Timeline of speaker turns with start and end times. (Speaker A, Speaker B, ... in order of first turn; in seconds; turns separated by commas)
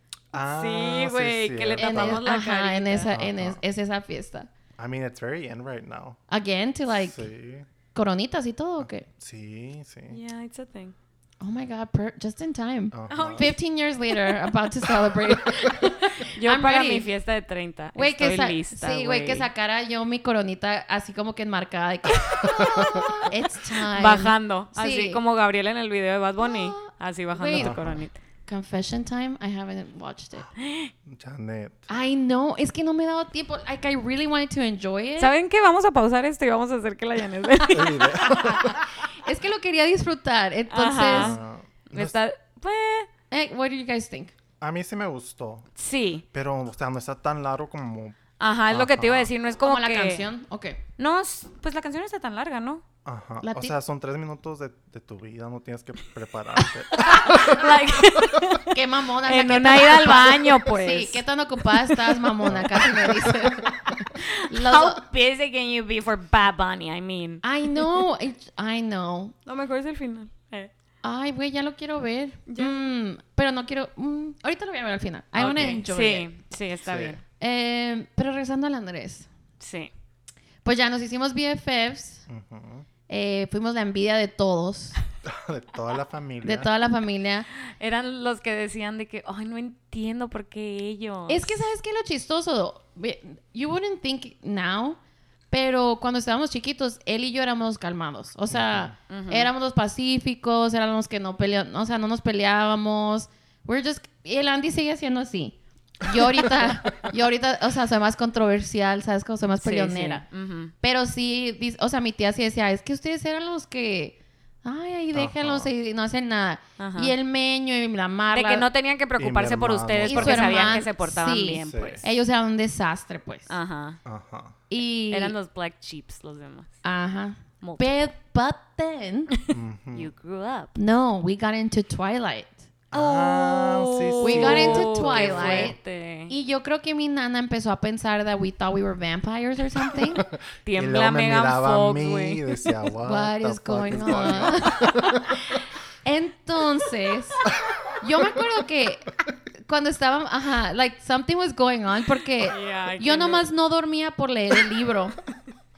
Speaker A: 0.3-2.2, Speaker B: 0.5-3.1, Speaker C: 1.8-4.5, Speaker A: 3.1-3.6, Speaker A: 4.8-6.2, Speaker C: 6.3-7.2, Speaker A: 6.9-7.7, Speaker C: 7.9-9.1, Speaker A: 8.8-10.2, Speaker B: 10.1-10.9, Speaker C: 11.4-17.1, Speaker A: 12.9-13.5, Speaker B: 13.1-13.6, Speaker B: 14.1-14.3, Speaker B: 16.3-19.5, Speaker C: 17.9-25.2, Speaker A: 22.4-23.3, Speaker B: 23.9-28.1, Speaker C: 26.4-27.8, Speaker A: 27.6-28.0, Speaker C: 28.5-30.5, Speaker B: 30.6-30.9, Speaker A: 31.1-31.9, Speaker C: 31.9-35.3, Speaker B: 35.2-38.1, Speaker A: 37.7-38.9, Speaker C: 38.2-41.4, Speaker B: 40.7-41.4, Speaker A: 41.1-42.2, Speaker B: 41.9-43.1, Speaker C: 43.3-44.3, Speaker A: 44.6-45.7, Speaker B: 45.8-46.2, Speaker A: 46.3-48.2, Speaker B: 48.4-50.3, Speaker A: 48.7-49.3, Speaker C: 49.6-50.8, Speaker B: 51.0-52.8, Speaker A: 53.0-57.7, Speaker C: 53.4-53.7, Speaker B: 57.0-61.2, Speaker C: 57.2-57.5, Speaker C: 58.7-65.0, Speaker B: 61.8-62.6, Speaker A: 62.5-63.4, Speaker B: 64.2-68.0, Speaker C: 67.4-69.3, Speaker B: 69.5-70.7, Speaker C: 71.0-76.3, Speaker B: 72.5-72.8, Speaker A: 75.4-75.8, Speaker B: 75.5-77.2, Speaker A: 76.8-77.2, Speaker C: 77.4-79.3, Speaker B: 79.6-79.9, Speaker C: 80.6-82.2, Speaker A: 82.3-82.9, Speaker C: 83.1-85.0, Speaker A: 85.2-86.7, Speaker C: 86.4-87.5, Speaker B: 87.7-91.7, Speaker C: 91.3-95.0, Speaker C: 95.5-110.2, Speaker A: 98.5-99.0, Speaker B: 99.1-99.5, Speaker B: 109.6-110.7, Speaker C: 110.8-118.7, Speaker A: 115.1-115.7, Speaker B: 116.8-117.1, Speaker B: 118.3-122.0, Speaker A: 119.2-120.9, Speaker C: 120.1-123.5, Speaker A: 121.6-122.0, Speaker B: 123.5-124.0, Speaker A: 124.0-124.5, Speaker C: 124.7-125.3, Speaker B: 125.1-126.7, Speaker C: 126.8-129.3, Speaker B: 127.6-128.1, Speaker B: 129.3-130.8, Speaker A: 129.5-130.1, Speaker C: 130.8-132.6, Speaker A: 132.9-135.8, Speaker B: 132.9-136.3, Speaker C: 134.2-135.8, Speaker C: 136.3-140.2, Speaker A: 140.2-145.3, Speaker B: 140.7-142.7, Speaker C: 143.0-147.5, Speaker B: 144.1-144.5, Speaker C: 148.0-155.2, Speaker B: 152.5-153.5